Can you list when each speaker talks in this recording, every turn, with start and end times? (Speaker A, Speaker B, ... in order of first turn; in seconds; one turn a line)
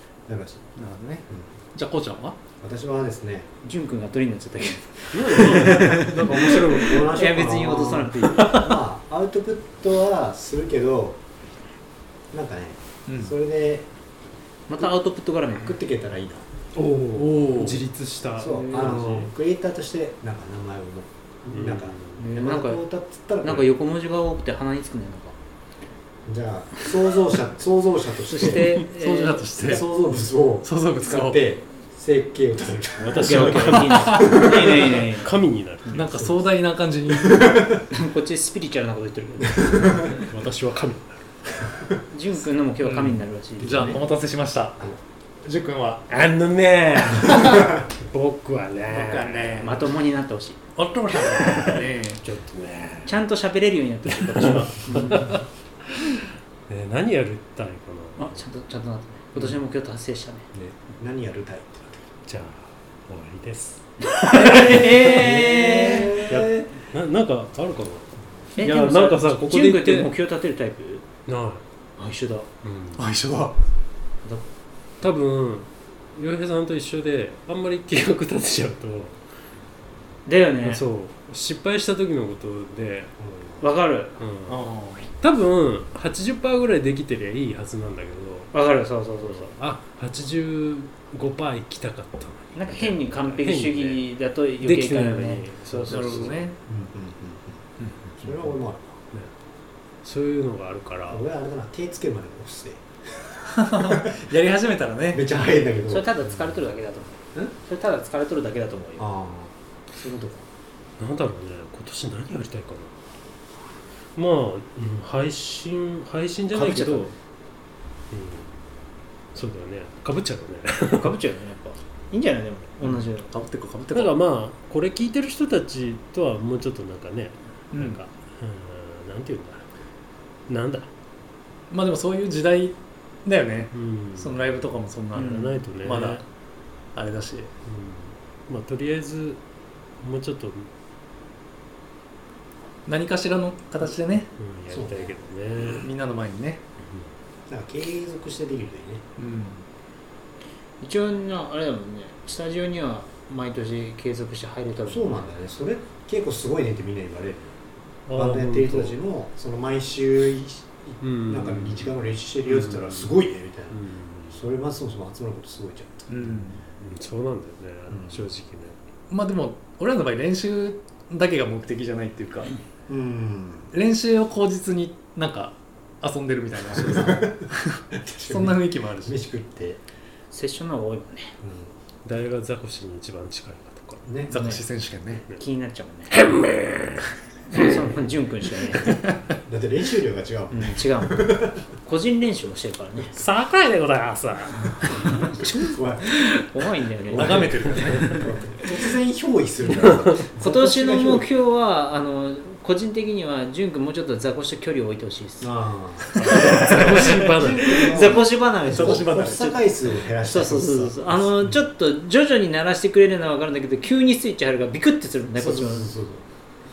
Speaker A: 0.3-0.7
Speaker B: 0.8-2.4
Speaker A: 2.6-3.5
Speaker C: 3.6-8.7
Speaker D: 5.1-8.7
Speaker A: 5.6-11.2
Speaker B: 6.3-6.8
Speaker A: 12.3-13.9
Speaker B: 13.1-13.3
Speaker C: 14.7-15.8
Speaker A: 15.5-16.5
Speaker D: 16.7-19.3
Speaker B: 17.2-17.8
Speaker A: 18.4-23.7
Speaker D: 21.5-22.2
Speaker C: 22.2-22.9
Speaker C: 23.4-25.4
Speaker A: 26.3-28.9
Speaker C: 28.2-29.8
Speaker B: 28.9-29.9
Speaker A: 29.6-35.0
Speaker B: 30.6-31.4
Speaker D: 33.0-36.3
Speaker C: 33.2-35.3
Speaker B: 33.8-34.4
Speaker B: 35.9-37.8
Speaker A: 37.1-37.8
Speaker C: 37.9-40.1
Speaker A: 39.5-40.2
Speaker D: 40.1-41.2
Speaker C: 42.1-44.0
Speaker B: 42.8-46.0
Speaker A: 43.6-44.0
Speaker D: 46.1-49.6
Speaker B: 48.9-49.9
Speaker C: 49.6-50.6
Speaker B: 50.8-52.2
Speaker D: 51.1-53.2
Speaker C: 53.0-55.3
Speaker D: 54.1-58.4
Speaker A: 54.9-55.2
Speaker C: 58.2-60.5
Speaker A: 60.5-62.1
Speaker D: 62.3-70.1
Speaker C: 64.1-66.3
Speaker A: 65.1-66.7
Speaker C: 68.6-71.1
Speaker D: 71.3-71.6
Speaker C: 72.0-72.5
Speaker D: 72.6-73.1
Speaker B: 73.0-73.6
Speaker D: 75.0-79.2
Speaker C: 80.3-80.8
Speaker D: 80.6-83.1
Speaker A: 83.2-83.6
Speaker C: 83.6-84.2
Speaker D: 84.2-84.7
Speaker B: 84.5-85.1
Speaker D: 85.2-88.5
Speaker C: 88.5-89.5
Speaker D: 89.2-96.5
Speaker C: 92.5-96.4
Speaker B: 95.7-96.6
Speaker A: 96.7-99.0
Speaker B: 97.8-98.1
Speaker D: 100.0-101.2
Speaker A: 101.1-104.1
Speaker B: 103.5-105.2
Speaker A: 105.1-106.5
Speaker C: 105.9-109.1
Speaker A: 109.0-110.4
Speaker D: 111.0-112.9
Speaker D: 114.2-117.1
Speaker B: 116.6-117.0
Speaker D: 118.1-118.6
Speaker D: 119.3-121.2
Speaker C: 120.9-123.3
Speaker B: 122.8-124.2
Speaker D: 123.9-129.7
Speaker B: 127.7-128.0
Speaker D: 130.5-130.9
Speaker B: 131.7-136.2
Speaker D: 133.7-134.6
Speaker D: 135.1-136.2
Speaker C: 135.2-135.5
Speaker B: 136.9-137.5
Speaker D: 137.7-139.4
Speaker D: 140.0-140.7
Speaker B: 142.9-144.3
Speaker D: 144.4-145.9
Speaker A: 144.7-145.2
Speaker B: 145.8-146.6
Speaker A: 147.5-149.1
Speaker B: 149.2-149.6
Speaker C: 150.8-155.3
Speaker A: 154.9-157.6
Speaker D: 158.1-159.0
Speaker A: 158.1-163.8
Speaker D: 161.0-163.2
Speaker D: 163.7-164.5
Speaker A: 164.3-166.4
Speaker B: 166.1-166.6
Speaker D: 166.8-168.8
Speaker A: 167.9-168.3
Speaker B: 169.1-172.6
Speaker A: 172.9-173.7
Speaker B: 173.7-179.2
Speaker A: 176.7-179.8
Speaker C: 180.3-181.3
Speaker A: 181.4-181.7
Speaker D: 182.1-184.3
Speaker A: 184.1-184.3
Speaker B: 184.3-185.2
Speaker C: 184.3-184.6
Speaker C: 185.4-186.3
Speaker D: 186.1-187.0
Speaker C: 187.5-189.0
Speaker A: 189.5-191.6
Speaker C: 190.5-193.1
Speaker D: 193.1-194.9
Speaker C: 194.9-198.3
Speaker A: 194.9-196.2
Speaker A: 197.1-201.3
Speaker B: 197.1-198.2
Speaker D: 199.8-200.2
Speaker C: 200.4-205.5
Speaker A: 205.4-211.6
Speaker C: 206.1-209.6
Speaker D: 206.2-208.2
Speaker B: 206.3-207.1
Speaker B: 208.6-209.6
Speaker C: 210.2-215.9
Speaker A: 215.4-216.2